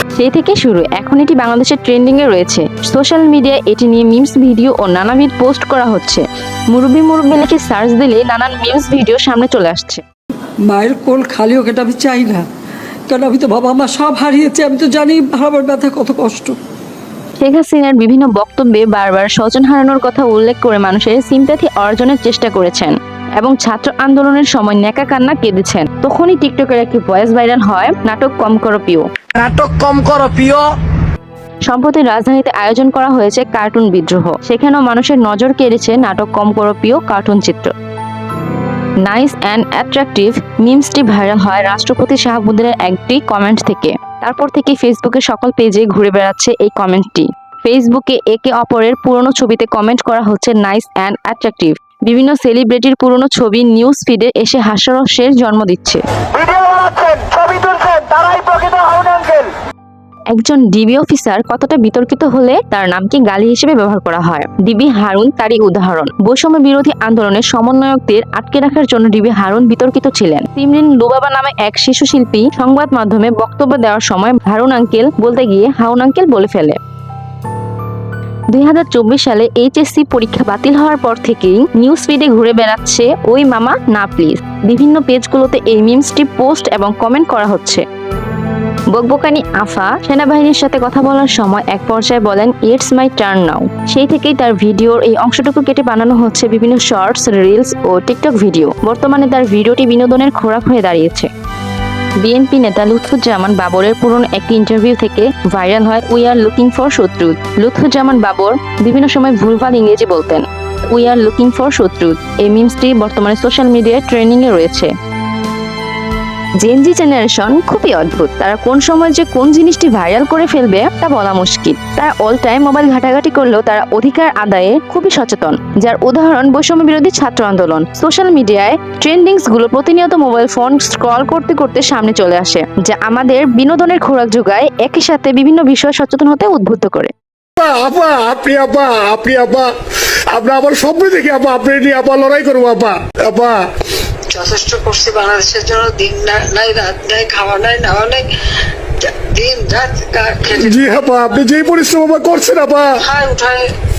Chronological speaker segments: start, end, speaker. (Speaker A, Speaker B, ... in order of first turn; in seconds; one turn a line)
Speaker A: 0.1-10.0
Speaker B: 10.7-12.5
Speaker B: 13.1-16.6
Speaker A: 17.4-29.1
Speaker C: 29.4-30.6
Speaker A: 31.7-37.7
Speaker A: 39.0-56.0
Speaker C: 56.4-59.5
Speaker A: 60.3-76.8
Speaker A: 78.5-87.8
Speaker A: 88.9-101.3
Speaker A: 102.2-114.9
Speaker A: 116.6-137.1
Speaker D: 137.6-139.7
Speaker D: 140.3-143.6
Speaker E: 144.3-148.3
Speaker E: 149.0-150.8
Speaker D: 150.6-153.0
Speaker E: 153.0-153.7